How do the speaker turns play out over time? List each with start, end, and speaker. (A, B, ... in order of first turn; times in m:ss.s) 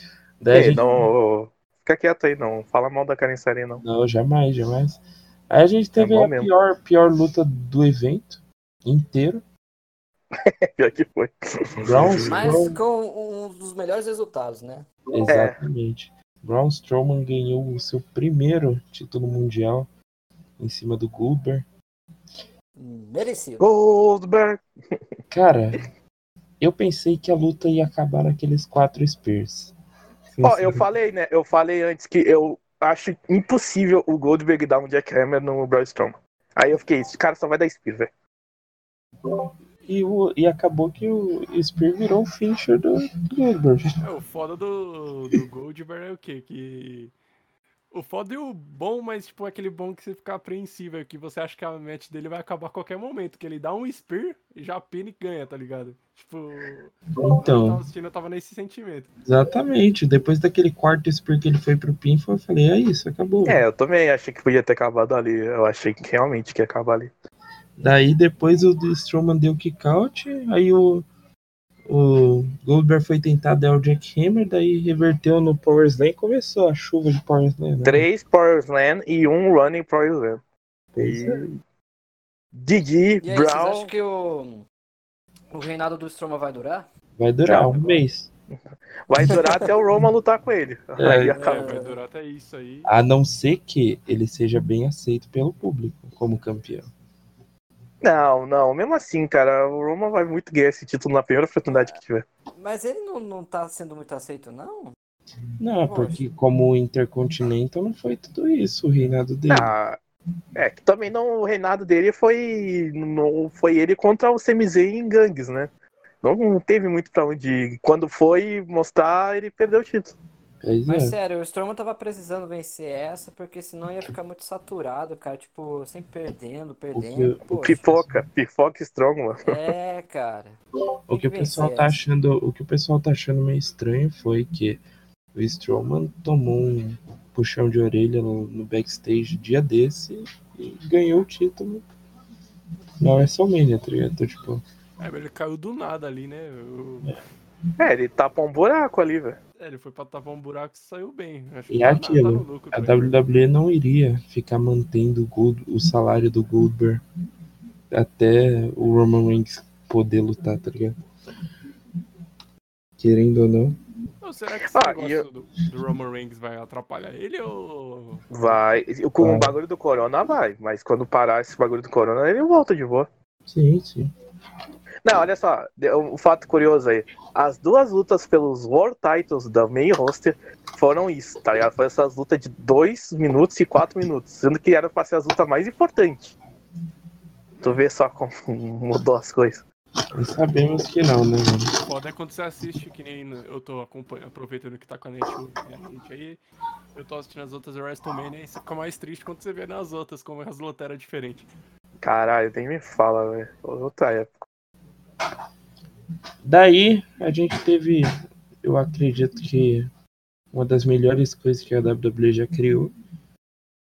0:00.4-0:01.0 A
0:00.5-0:03.8 B
0:03.8-0:09.4 A
0:06.0-0:06.5 B
0:10.5-0:11.4 B
0:11.8-0:12.8 A
0:11.9-0:12.4 B
0:12.0-0:12.3 C
0:12.3-0:14.9 D
0:15.1-0:19.9 A
0:15.3-0:15.6 B
0:20.6-0:21.7 A
0:22.8-0:23.7 D
0:23.6-0:24.6 B
0:25.3-0:25.8 A
0:26.6-0:29.7 A
0:30.3-0:30.8 A
0:30.4-0:38.1 B
0:39.9-0:43.9 A
0:44.0-0:47.1 C
0:47.9-0:59.1 C
0:57.2-0:57.8 A
0:59.3-1:03.6 A
1:03.4-1:07.1 B
1:07.8-1:11.1 A
1:11.9-1:18.0 A
1:17.8-1:20.4 B
1:20.9-1:21.4 A
1:21.0-1:21.6 B
1:22.5-1:23.9 B
1:23.2-1:24.6 D
1:25.5-1:26.9 D
1:27.2-1:28.3 A
1:27.5-1:28.0 B
1:29.1-1:31.6 B
1:31.0-1:31.4 A
1:31.3-1:32.0 D
1:31.4-1:32.9 C
1:32.8-1:36.9 A
1:38.0-1:42.2 B
1:42.6-1:44.9 D
1:45.6-1:49.7 A
1:45.9-1:46.2 D
1:49.5-1:50.0 B
1:50.6-1:55.7 B
1:56.2-2:00.2 B
2:00.6-2:01.2 A
2:00.9-2:07.8 D
2:06.9-2:08.2 A
2:07.6-2:09.6 B
2:09.4-2:10.6 D
2:11.1-2:14.8 A
2:11.1-2:12.0 D
2:15.3-2:21.9 A
2:23.0-2:24.6 A
2:25.0-2:27.2 C
2:27.8-2:29.4 B
2:29.6-2:33.1 C
2:31.7-2:37.0 A
2:37.9-2:41.0 A
2:43.0-2:43.8 A
2:44.2-2:48.6 C
2:44.7-2:45.2 B
2:48.3-2:53.1 B
2:49.2-2:49.6 A
2:53.5-2:54.1 A
2:55.0-3:06.4 B
3:07.6-3:07.8 C
3:07.6-3:09.6 B
3:10.1-3:11.7 A
3:11.8-3:16.4 C
3:17.0-3:21.5 C
3:22.0-3:24.4 B
3:26.4-3:28.1 A
3:28.6-3:29.9 A
3:30.5-3:32.9 A